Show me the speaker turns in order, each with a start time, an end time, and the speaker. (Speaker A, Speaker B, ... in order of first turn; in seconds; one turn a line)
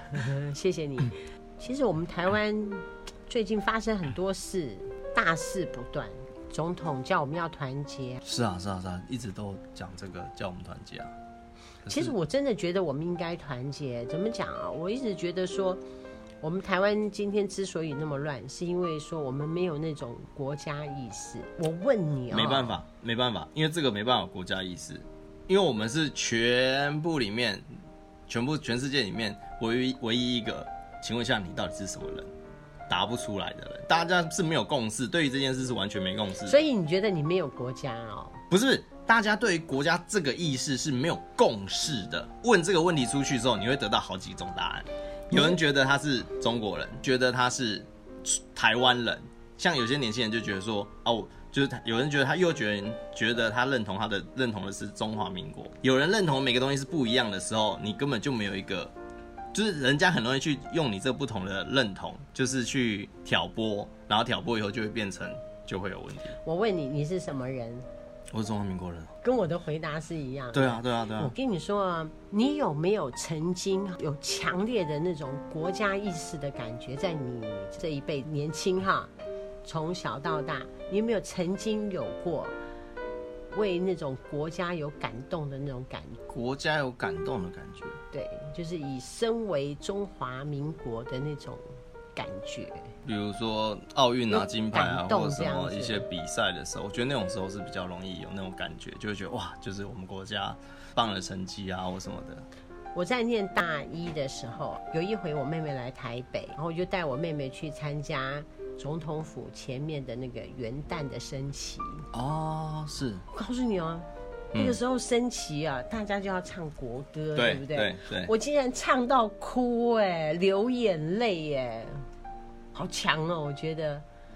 Speaker A: 0.1-8.2
Speaker B: 8.2-11.1
Speaker B: 11.8-12.1
Speaker A: 11.9-15.8
Speaker A: 16.4-22.8
Speaker B: 22.3-27.6
Speaker B: 28.3-32.3
Speaker B: 32.9-36.6
Speaker A: 36.5-38.4
Speaker B: 38.5-58.9
Speaker B: 59.5-66.4
Speaker A: 66.5-67.9
Speaker B: 68.3-69.1
Speaker A: 69.2-79.1
Speaker B: 70.5-71.3
Speaker A: 79.7-82.5
Speaker A: 83.5-86.2
Speaker B: 86.3-88.0
Speaker A: 88.1-91.6
Speaker A: 92.2-92.9
Speaker B: 93.0-102.5
Speaker A: 94.3-96.0
Speaker A: 103.0-112.1
Speaker B: 112.1-113.2
Speaker A: 113.3-122.0
Speaker B: 117.4-118.3
Speaker A: 122.8-124.0